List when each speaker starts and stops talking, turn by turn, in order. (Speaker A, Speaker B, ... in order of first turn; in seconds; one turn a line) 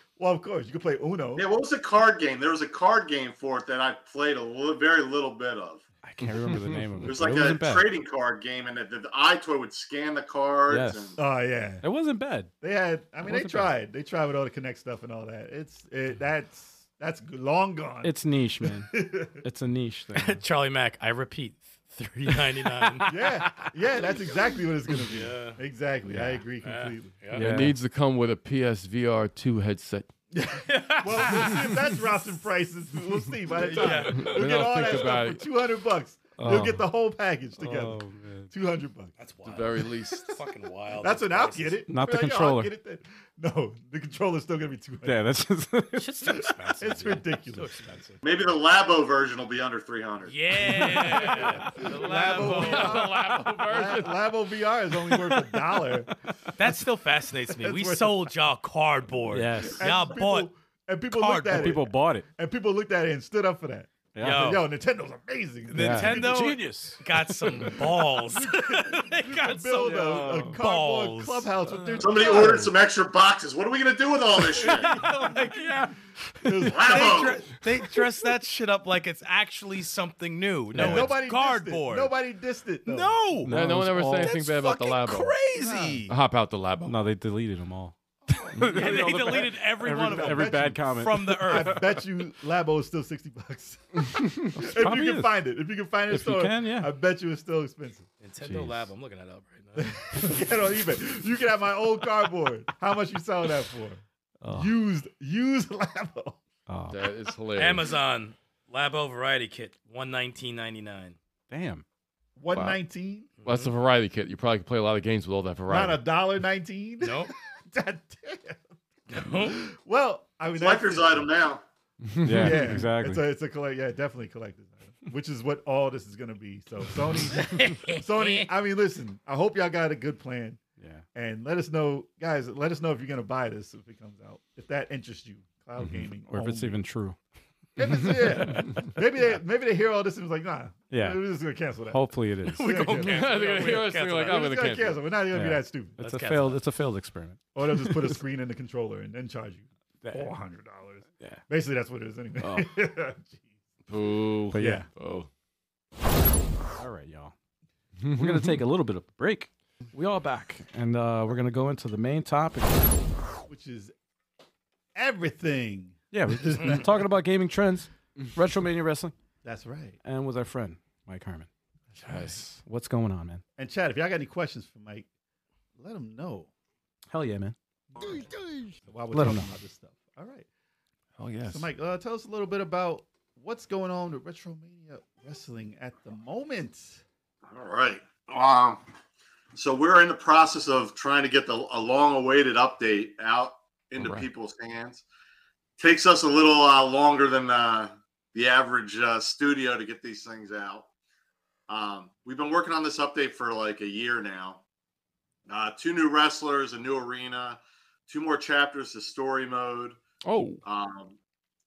Speaker A: 0.2-1.4
Speaker B: 1.4-5.8
Speaker C: 6.0-7.9
Speaker D: 6.2-7.1
Speaker B: 7.0-11.2
Speaker C: 10.7-11.2
Speaker A: 11.2-11.8
Speaker C: 11.8-12.5
Speaker A: 12.6-19.4
Speaker C: 13.2-13.7
Speaker C: 18.0-20.4
Speaker E: 20.1-24.3
Speaker A: 23.0-27.2
Speaker E: 24.9-25.6
Speaker C: 26.1-26.4
Speaker E: 26.6-27.5
Speaker C: 27.3-27.8
Speaker D: 27.3-30.1
Speaker A: 30.3-39.1
Speaker E: 30.6-31.8
Speaker E: 33.6-35.1
Speaker D: 33.8-35.4
Speaker C: 36.4-36.8
Speaker C: 37.6-38.5
Speaker E: 39.2-41.8
Speaker D: 39.4-40.3
Speaker A: 41.0-45.2
Speaker C: 41.9-42.7
Speaker C: 45.0-46.1
Speaker E: 45.9-48.2
Speaker A: 46.4-47.8
Speaker B: 48.2-50.3
Speaker E: 50.2-53.4
Speaker D: 51.0-54.2
Speaker A: 51.2-56.1
Speaker E: 56.5-60.5
Speaker A: 57.6-58.3
Speaker C: 59.3-59.8
Speaker A: 59.6-66.6
Speaker E: 61.1-61.8
Speaker C: 61.5-62.2
Speaker C: 64.1-64.5
Speaker E: 64.2-64.7
Speaker E: 65.7-72.3
Speaker C: 65.7-67.7
Speaker A: 67.5-72.7
Speaker C: 69.8-70.6
Speaker C: 71.7-72.0
Speaker B: 72.0-74.9
Speaker E: 74.5-75.9
Speaker A: 74.7-75.1
Speaker C: 74.9-75.7
Speaker A: 76.4-77.5
Speaker C: 76.4-76.7
Speaker E: 76.6-82.1
Speaker B: 76.7-77.5
Speaker C: 80.7-81.1
Speaker A: 80.7-83.2
Speaker E: 82.8-83.5
Speaker C: 83.4-84.4
Speaker D: 83.5-85.4
Speaker E: 84.0-86.1
Speaker A: 85.5-86.0
Speaker D: 86.1-87.0
Speaker C: 86.8-91.8
Speaker E: 88.6-91.9
Speaker A: 89.8-90.8
Speaker A: 91.4-98.1
Speaker C: 94.5-95.3
Speaker C: 96.1-96.9
Speaker E: 98.2-100.4
Speaker C: 98.4-98.9
Speaker A: 99.8-106.4
Speaker C: 104.4-104.7
Speaker C: 106.7-107.1
Speaker D: 106.9-107.9
Speaker E: 107.5-111.2
Speaker C: 111.5-111.8
Speaker A: 112.4-113.3
Speaker D: 112.5-112.8
Speaker E: 113.4-113.7
Speaker D: 113.4-116.0
Speaker A: 115.7-121.3
Speaker E: 117.0-117.3
Speaker E: 119.1-119.6
Speaker B: 120.5-121.6
Speaker D: 122.0-122.8
Speaker C: 122.2-123.2
Speaker A: 122.3-130.6
Speaker E: 127.3-128.5
Speaker C: 130.8-131.0
Speaker A: 131.1-136.8
Speaker C: 136.3-137.2
Speaker A: 137.8-146.0
Speaker C: 138.0-138.9
Speaker C: 140.9-141.2
Speaker C: 141.9-142.8
Speaker E: 142.5-144.4
Speaker D: 143.0-145.0
Speaker C: 145.3-148.2
Speaker E: 146.0-146.6
Speaker A: 147.5-153.5
Speaker C: 150.0-150.3
Speaker C: 152.4-152.7
Speaker D: 153.9-155.3
Speaker C: 154.5-154.8
Speaker A: 154.5-154.9
Speaker C: 156.7-157.3
Speaker D: 158.0-158.6
Speaker C: 158.1-163.0
Speaker A: 163.4-163.9
Speaker A: 164.9-167.0
Speaker C: 166.1-169.1
Speaker A: 169.4-170.0
Speaker C: 170.0-171.5
Speaker A: 171.9-172.4
Speaker D: 172.0-172.6
Speaker C: 172.5-173.4
Speaker A: 173.6-175.1
Speaker A: 175.8-176.5
Speaker C: 177.1-177.5
Speaker A: 177.9-178.3
Speaker A: 178.8-180.5
Speaker C: 179.1-179.5
Speaker D: 181.2-181.7
Speaker A: 181.5-187.0
Speaker B: 187.5-188.8
Speaker B: 189.5-195.0
Speaker D: 194.0-194.2
Speaker B: 195.8-200.9
Speaker B: 201.7-204.6
Speaker B: 205.5-210.0
Speaker D: 210.2-210.6
Speaker B: 210.6-211.2